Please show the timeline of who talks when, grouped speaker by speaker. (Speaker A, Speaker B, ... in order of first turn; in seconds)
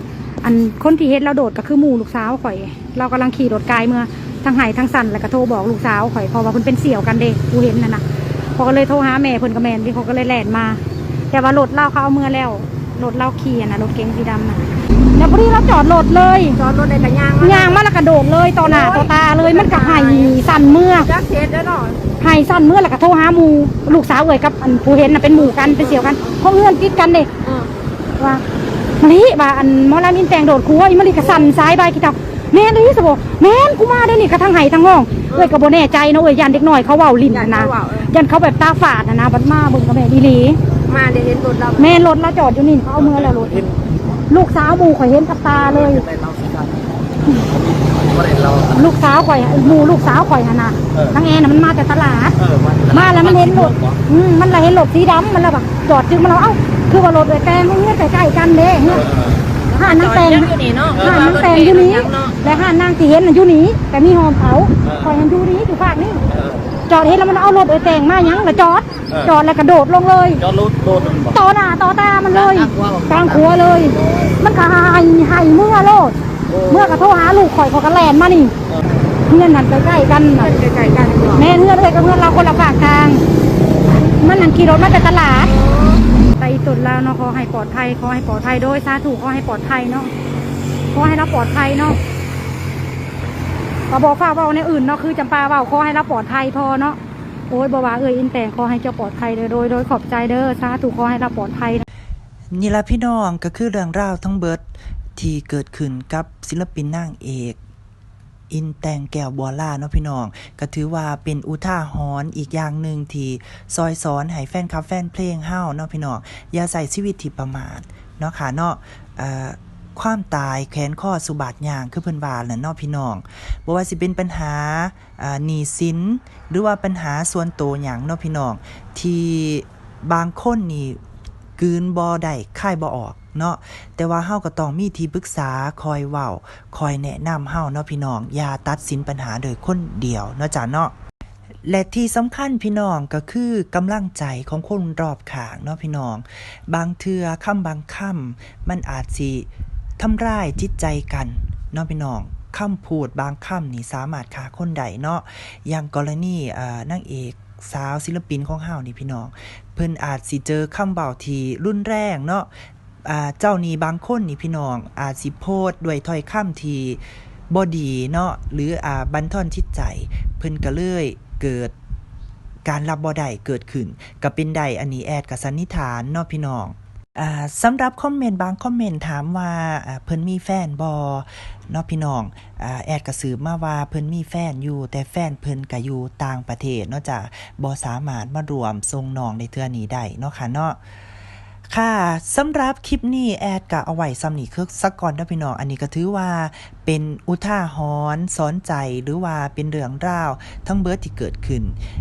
Speaker A: 0.4-8.0, 8.6-10.8, 11.3-14.6, 15.1-16.6, 17.4-21.1, 22.2-27.3, 29.0-40.6, 41.8-43.6, 44.3-46.1, 48.7-52.4, 52.9-59.1, 59.8-66.2, 66.9-70.4, 71.2-76.2, 76.7-78.5, 79.3-80.6, 81.3-83.2, 84.2-85.5, 86.3-90.1, 90.9-92.0, 93.9-97.0, 97.5-101.8
Speaker B: 16.6-17.8, 18.6-22.0, 25.4-26.3, 27.4-27.7, 31.2-31.5, 37.3-38.1, 40.9-42.0, 59.8-61.2, 62.0-62.3, 80.3-81.5, 85.5-86.0
Speaker C: 45.8-46.7, 48.1-48.6, 52.6-53.7, 61.0-61.8, 70.6-71.2, 72.6-73.4
Speaker D: 102.5-104.7, 105.2-107.6, 108.5-131.0, 131.6-140.9, 141.7-162.5, 163.1-171.7, 172.7-190.8, 191.7-201.8